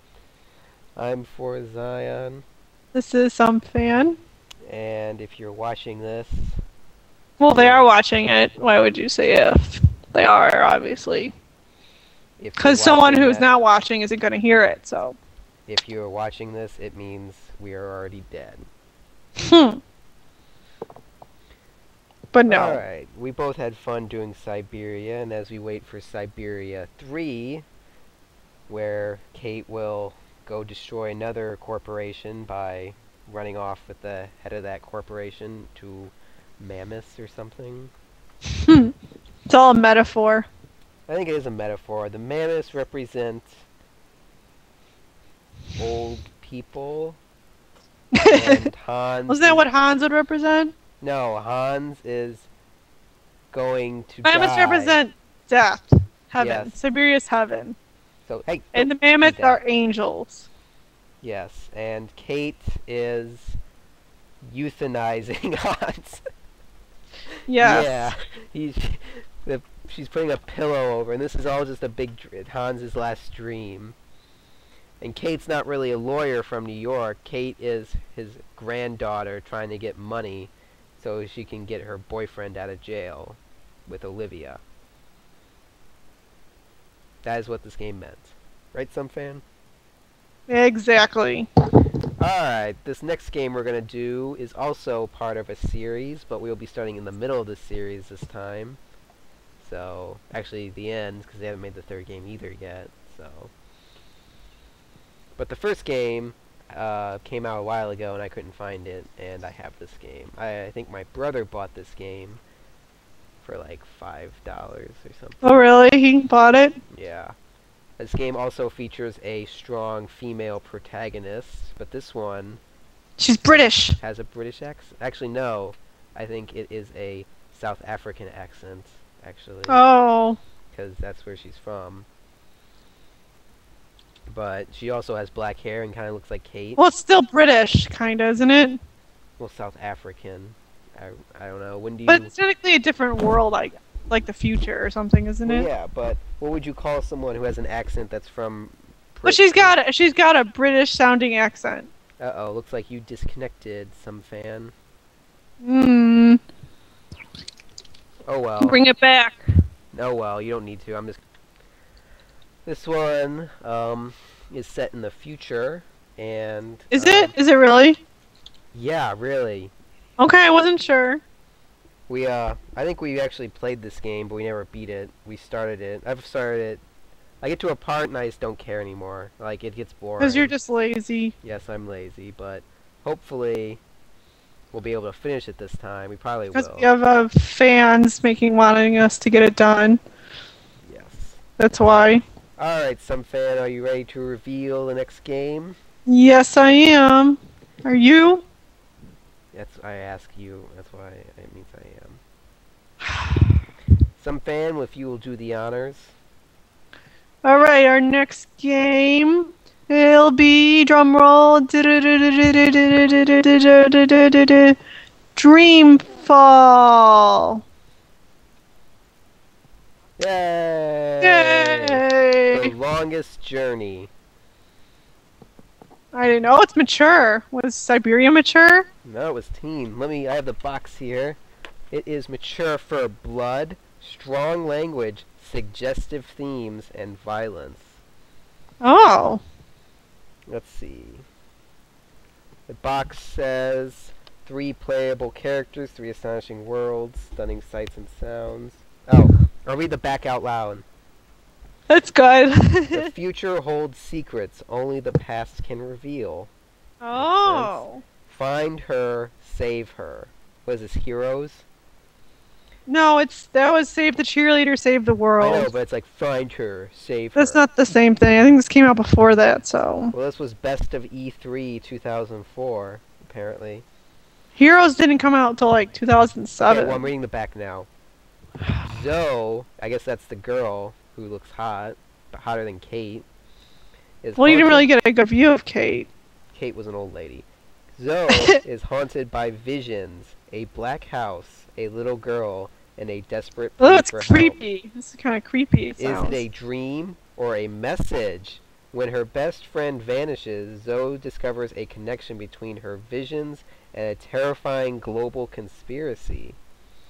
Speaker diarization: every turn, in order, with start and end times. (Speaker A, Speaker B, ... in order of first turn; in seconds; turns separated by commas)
Speaker A: 1.0-2.5, Speaker B: 2.9-4.2, Speaker A: 4.7-6.6, Speaker B: 7.4-11.3, Speaker A: 7.5-7.9, Speaker A: 12.4-13.5, Speaker B: 12.6-15.2, Speaker A: 15.7-18.7, Speaker B: 19.4-19.8, Speaker B: 22.3-22.8, Speaker A: 22.5-27.6, Speaker A: 28.7-37.9, Speaker B: 38.6-38.9, Speaker B: 39.5-40.5, Speaker A: 41.1-43.6, Speaker A: 45.8-47.2, Speaker B: 48.1-48.7, Speaker A: 48.2-49.6, Speaker B: 49.3-50.7, Speaker A: 51.0-52.5, Speaker A: 53.5-55.0, Speaker B: 54.2-57.8, Speaker A: 56.4-56.7, Speaker A: 58.3-59.6, Speaker B: 58.7-60.5, Speaker A: 61.2-63.6, Speaker A: 64.4-66.2, Speaker B: 67.5-68.1, Speaker A: 67.6-74.0, Speaker A: 75.0-84.6, Speaker A: 87.2-89.4, Speaker B: 90.5-91.5, Speaker A: 92.2-98.8, Speaker A: 99.6-103.5, Speaker A: 105.4-112.4, Speaker A: 113.4-115.6, Speaker B: 115.4-116.8, Speaker A: 116.9-117.3, Speaker A: 118.0-122.6, Speaker B: 123.2-124.0, Speaker A: 123.5-129.8, Speaker B: 129.7-130.4, Speaker A: 130.7-132.1, Speaker A: 134.3-136.8, Speaker B: 136.8-138.8, Speaker A: 139.4-142.3, Speaker B: 142.1-145.7, Speaker A: 145.5-149.8, Speaker B: 149.2-151.9, Speaker A: 152.2-154.7, Speaker B: 155.6-156.4, Speaker A: 158.3-158.8, Speaker B: 158.6-159.4, Speaker A: 159.9-161.2, Speaker A: 162.7-167.3, Speaker B: 166.9-168.0, Speaker A: 168.7-169.7, Speaker B: 170.2-171.2, Speaker A: 172.1-176.8, Speaker A: 177.4-180.6, Speaker B: 180.2-181.3, Speaker A: 181.4-183.8, Speaker A: 184.7-186.9, Speaker B: 186.5-190.0, Speaker A: 190.8-191.4, Speaker B: 191.6-192.2, Speaker A: 192.6-195.8, Speaker B: 196.1-198.4, Speaker A: 199.5-202.2, Speaker A: 204.2-206.2, Speaker B: 207.4-214.8, Speaker B: 215.4-217.6, Speaker A: 220.2-224.1, Speaker B: 221.2-222.7, Speaker B: 226.1-228.9, Speaker A: 229.0-231.4, Speaker A: 231.9-238.0, Speaker B: 238.8-239.4, Speaker A: 240.5-241.2, Speaker A: 242.7-250.9, Speaker B: 251.9-253.1, Speaker A: 252.9-256.5, Speaker B: 257.0-258.0, Speaker A: 257.1-261.6, Speaker B: 262.9-265.7, Speaker A: 265.4-267.6, Speaker B: 267.4-270.1, Speaker A: 270.1-273.9, Speaker B: 274.6-277.1, Speaker A: 276.7-277.9, Speaker A: 278.8-283.3, Speaker A: 284.2-284.9, Speaker B: 284.4-286.1, Speaker A: 286.5-287.5, Speaker A: 288.0-294.6, Speaker B: 288.3-288.6, Speaker B: 293.8-296.4, Speaker A: 296.0-306.6